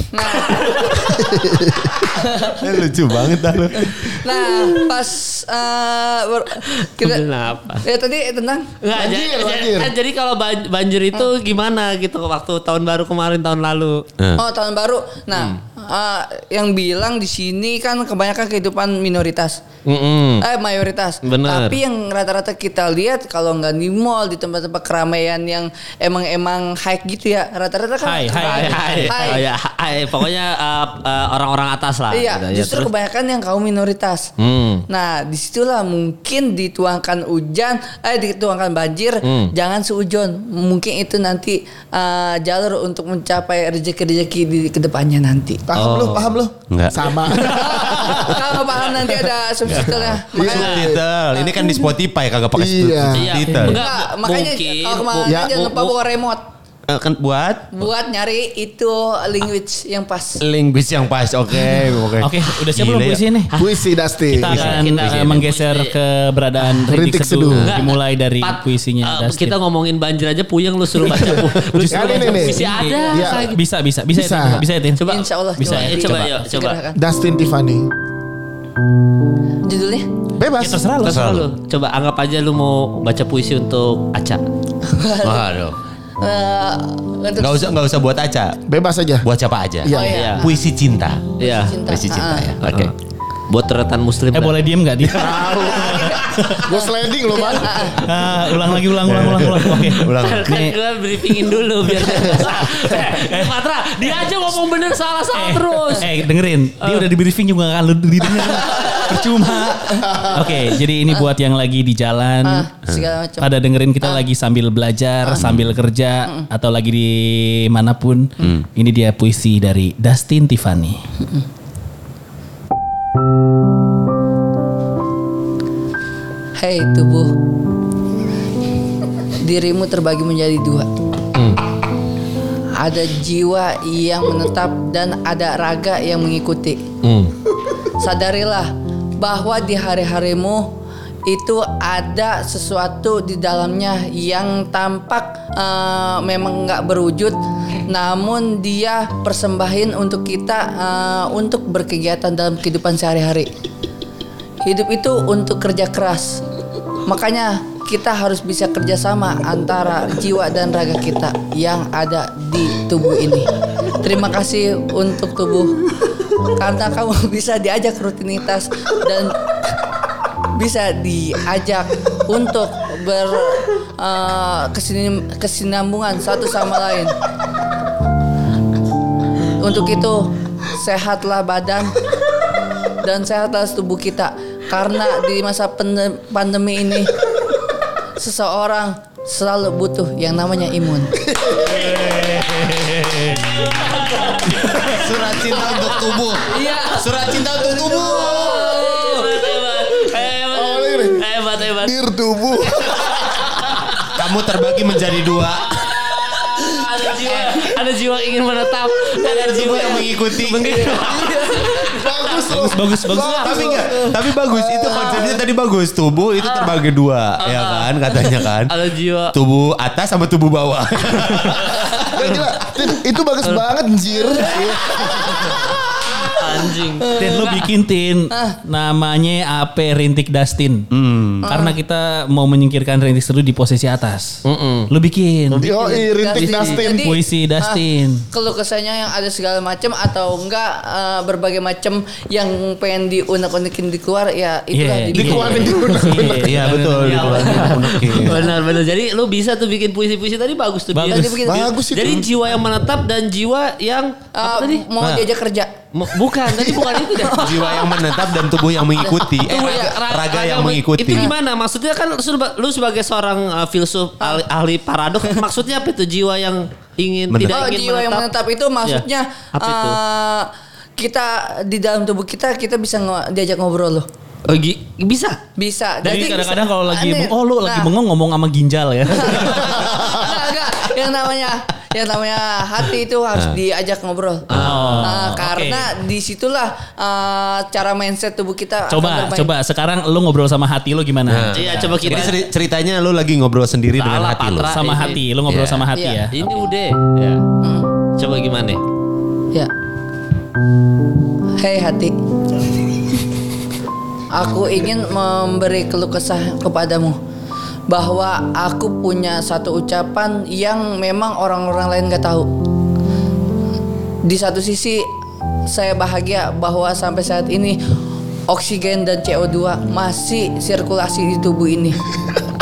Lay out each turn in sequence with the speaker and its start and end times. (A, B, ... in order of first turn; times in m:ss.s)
0:00.1-0:01.1 A
0:00.2-0:01.0 B
0:01.0-0:01.9 C
0:02.1-0:02.7 A
0:02.5-0:04.7 D
0:03.7-0:07.2 A
0:06.7-0:07.8 B
0:07.8-0:08.7 A
0:08.8-0:14.0 B
0:08.9-0:09.9 C
0:14.4-0:19.6 A
0:19.8-0:20.4 B
0:20.4-0:29.4 A
0:21.2-0:21.8 B
0:28.0-0:29.4 E
0:28.3-0:32.9 B
0:32.1-0:34.3 A
0:34.4-0:34.8 B
0:34.9-0:45.6 A
0:39.2-0:39.5 B
0:45.6-0:48.3 C
0:45.8-0:46.4 B
0:46.7-0:48.4 D
0:47.4-0:51.8 A
0:49.6-0:53.8 D
0:50.3-0:51.0 C
0:50.4-0:50.9 B
0:52.6-0:53.8 C
0:53.1-0:55.9 B
0:53.7-0:56.4 A
0:55.2-0:55.7 C
0:56.9-0:57.8 D
0:57.7-1:00.4 A
1:00.4-1:03.2 D
1:02.2-1:03.5 E
1:03.5-1:03.8 B
1:03.6-1:04.6 C
1:04.3-1:09.6 E
1:04.5-1:05.4 D
1:04.5-1:05.9 B
1:06.8-1:07.7 C
1:07.5-1:13.6 B
1:11.1-1:13.5 C
1:11.6-1:16.3 E
1:14.1-1:14.6 C
1:15.0-1:16.8 B
1:15.0-1:17.0 A
1:16.9-1:17.9 C
1:19.6-1:20.1 A
1:20.4-1:20.8 C
1:20.6-1:21.2 E
1:21.0-1:21.5 D
1:21.0-1:24.4 B
1:24.8-1:25.4 A
1:25.2-1:25.8 D
1:26.2-1:27.7 A
1:27.4-1:28.6 D
1:28.7-1:29.2 C
1:29.2-1:32.9 D
1:29.8-1:30.2 C
1:29.9-1:30.6 A
1:29.9-1:30.5 B
1:31.4-1:31.8 B
1:31.4-1:32.6 A
1:32.6-1:32.9 B
1:33.5-1:34.6 B
1:34.3-1:36.6 E
1:35.0-1:37.9 C
1:35.9-1:36.2 A
1:36.7-1:38.0 A
1:38.0-1:40.8 E
1:39.0-1:40.6 D
1:40.1-1:46.1 B
1:45.3-1:52.7 E
1:52.4-1:53.5 A
1:53.4-2:01.0 E
1:55.4-1:55.7 D
2:06.6-2:07.3 A
2:09.4-2:10.9 A
2:12.8-2:16.8 A
2:17.0-2:17.3 B
2:18.0-2:20.7 A
2:21.2-2:27.4 A
2:27.9-2:33.5 A
2:34.6-2:36.4 A
2:37.0-2:43.5 A
2:44.0-2:45.8 A
2:46.5-2:49.4 A
2:50.5-2:57.2 A
2:59.6-3:02.0 A
3:03.0-3:07.2 A
3:08.2-3:11.2 A
3:11.3-3:11.9 C
3:11.8-3:12.7 D
3:12.0-3:13.5 E
3:13.4-3:14.9 B
3:14.8-3:18.7 D
3:16.5-3:17.1 A
3:18.0-3:22.0 B
3:18.0-3:19.3 A
3:20.5-3:21.2 C
3:21.8-3:23.2 C
3:22.7-3:22.9 B
3:24.1-3:26.1 D
3:25.8-3:34.0 B
3:29.2-3:31.2 D
3:31.4-3:35.4 C
3:32.5-3:38.7 D
3:32.6-3:33.5 E
3:36.4-3:36.7 B
3:37.4-3:39.3 B
3:39.3-3:42.1 D
3:41.5-3:42.4 B
3:42.1-3:45.7 C
3:44.3-3:45.6 B
3:46.3-3:47.7 B
3:47.0-3:47.4 A
3:47.1-3:50.9 E
3:48.3-3:48.6 A
3:50.9-3:51.5 D
3:51.4-3:51.7 A
3:51.4-3:55.7 E
3:54.4-3:54.9 B
3:55.5-3:57.1 C
3:55.6-4:05.8 A
3:56.3-3:56.8 B
3:56.8-3:58.2 E
4:04.7-4:08.2 E
4:05.1-4:06.5 C
4:05.4-4:14.8 B
4:06.4-4:08.4 D
4:10.9-4:11.4 E
4:11.1-4:11.7 A
4:11.4-4:12.3 C
4:14.4-4:15.7 A
4:15.0-4:15.3 D
4:15.9-4:17.8 B
4:17.1-4:18.1 A
4:17.3-4:21.3 D
4:19.0-4:20.0 A
4:19.4-4:28.3 B
4:27.3-4:27.7 D
4:27.5-4:34.1 A
4:29.6-4:30.0 B
4:34.5-4:35.4 B
4:35.6-4:37.9 A
4:36.0-4:40.0 E
4:39.1-4:49.5 A
4:44.5-4:45.1 D
4:44.5-4:45.9 E
4:48.9-4:52.3 E
4:51.3-4:54.7 D
4:51.5-4:52.5 B
4:54.0-4:55.2 B
4:54.7-4:56.4 E
4:55.5-4:55.9 D
4:55.9-4:56.2 A
4:56.3-4:57.4 B
4:57.6-4:57.9 A
4:58.2-4:58.8 B
5:01.6-5:02.1 A
5:04.3-5:07.2 A
5:07.9-5:12.5 A
5:14.2-5:15.0 A
5:15.7-5:17.8 A
5:18.5-5:22.0 A